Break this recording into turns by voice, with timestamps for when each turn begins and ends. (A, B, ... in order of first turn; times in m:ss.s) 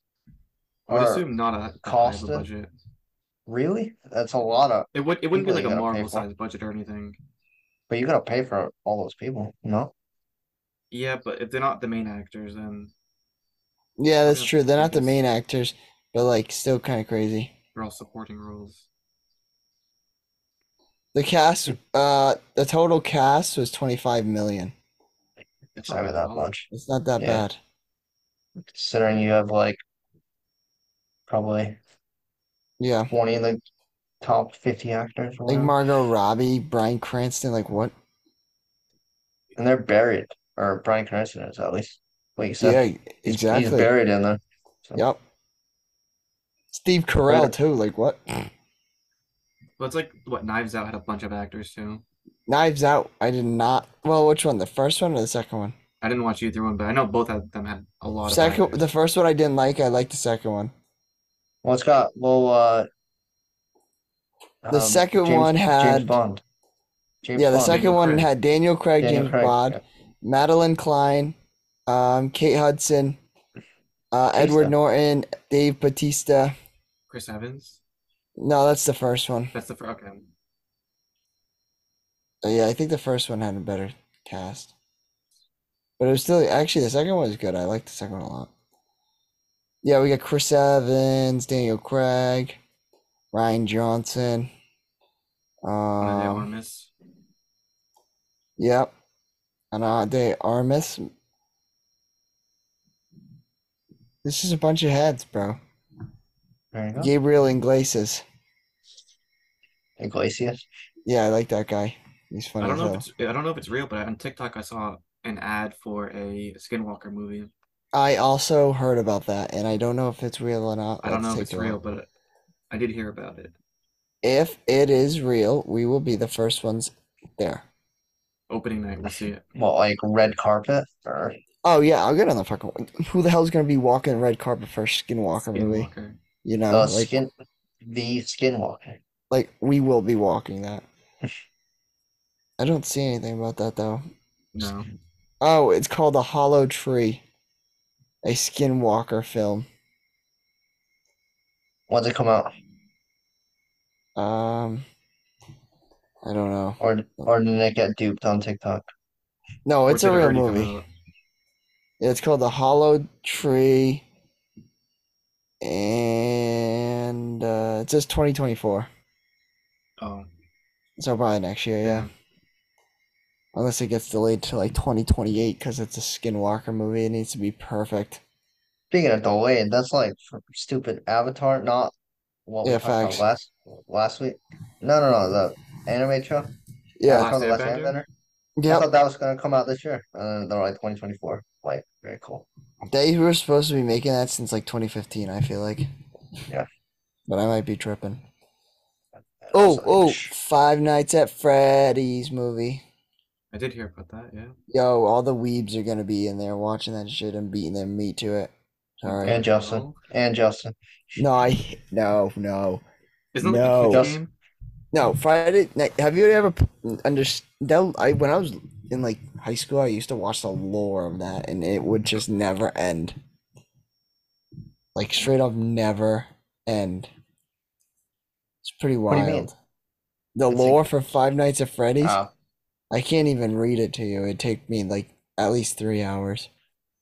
0:00.9-0:01.2 A
0:00.9-0:02.7 B
0:01.8-0:02.4 A
0:03.5-0:06.2 A
0:04.9-0:07.2 B
0:07.9-0:09.9 A
0:10.9-0:12.9 B
0:14.0-0:17.5 C
0:14.2-0:15.1 B
0:17.7-0:18.9 B
0:21.1-0:24.7 C
0:25.8-0:26.5 B
0:25.8-0:26.6 A
0:26.7-0:27.6 C
0:27.2-0:27.4 A
0:28.7-0:29.8 A
0:31.3-0:31.8 A
0:32.8-0:33.1 C
0:33.1-0:33.6 A
0:34.2-0:35.7 A
0:35.5-0:37.9 C
0:39.6-0:45.0 A
0:42.6-0:43.9 C
0:46.7-0:48.5 C
0:49.8-0:52.0 B
0:52.5-0:55.7 C
0:56.0-0:58.8 B
0:58.2-1:00.7 C
1:01.6-1:02.9 A
1:04.6-1:06.4 A
1:04.7-1:06.1 C
1:07.2-1:07.8 A
1:07.4-1:11.4 C
1:07.6-1:08.3 B
1:09.0-1:09.8 A
1:11.9-1:13.2 C
1:14.1-1:16.5 C
1:14.4-1:14.7 A
1:17.1-1:17.8 B
1:18.4-1:19.5 C
1:19.5-1:20.3 B
1:22.4-1:24.7 C
1:26.0-1:28.5 C
1:29.8-1:32.6 C
1:33.3-1:34.5 C
1:35.6-1:36.5 C
1:36.0-1:36.9 B
1:38.6-1:38.9 C
1:39.7-1:41.1 C
1:44.2-1:45.6 C
1:46.7-1:47.1 A
1:47.0-1:48.2 C
1:50.0-1:50.7 A
1:51.0-1:53.0 C
1:52.6-1:57.5 B
1:57.9-2:01.8 C
2:01.0-2:02.1 B
2:02.7-2:03.5 B
2:04.2-2:07.6 C
2:08.5-2:09.4 B
2:09.6-2:11.4 A
2:11.6-2:15.9 C
2:15.5-2:16.2 B
2:16.4-2:17.1 C
2:16.7-2:17.3 A
2:17.8-2:19.0 A
2:19.3-2:20.8 C
2:22.6-2:24.0 C
2:24.5-2:24.9 B
2:25.4-2:27.2 C
2:28.2-2:29.6 C
2:31.9-2:32.5 A
2:34.2-2:34.8 C
2:36.2-2:36.8 C
2:36.8-2:38.8 A
2:39.6-2:40.7 C
2:39.9-2:40.8 B
2:42.0-2:44.0 C
2:45.6-2:48.9 C
2:50.0-2:50.3 B
2:51.0-2:52.1 C
2:51.8-2:52.1 B
2:53.5-2:58.2 C
2:58.9-3:01.9 A
3:02.5-3:06.5 A
3:02.6-3:03.2 C
3:07.0-3:07.3 C
3:07.1-3:08.0 B
3:07.1-3:08.1 A
3:08.6-3:08.9 C
3:08.7-3:12.4 A
3:12.9-3:15.9 C
3:17.3-3:18.2 C
3:19.4-3:20.3 A
3:19.5-3:22.8 C
3:23.5-3:24.5 B
3:24.7-3:29.4 C
3:29.1-3:30.0 B
3:29.2-3:31.2 A
3:31.2-3:32.8 C
3:33.3-3:34.3 B
3:33.4-3:34.1 C
3:33.8-3:34.2 A
3:34.9-3:43.1 C
3:44.9-3:47.1 C
3:48.6-3:49.5 C
3:49.1-3:49.5 A
3:50.4-3:52.2 C
3:50.5-3:50.8 A
3:52.0-3:52.3 A
3:52.9-3:56.5 C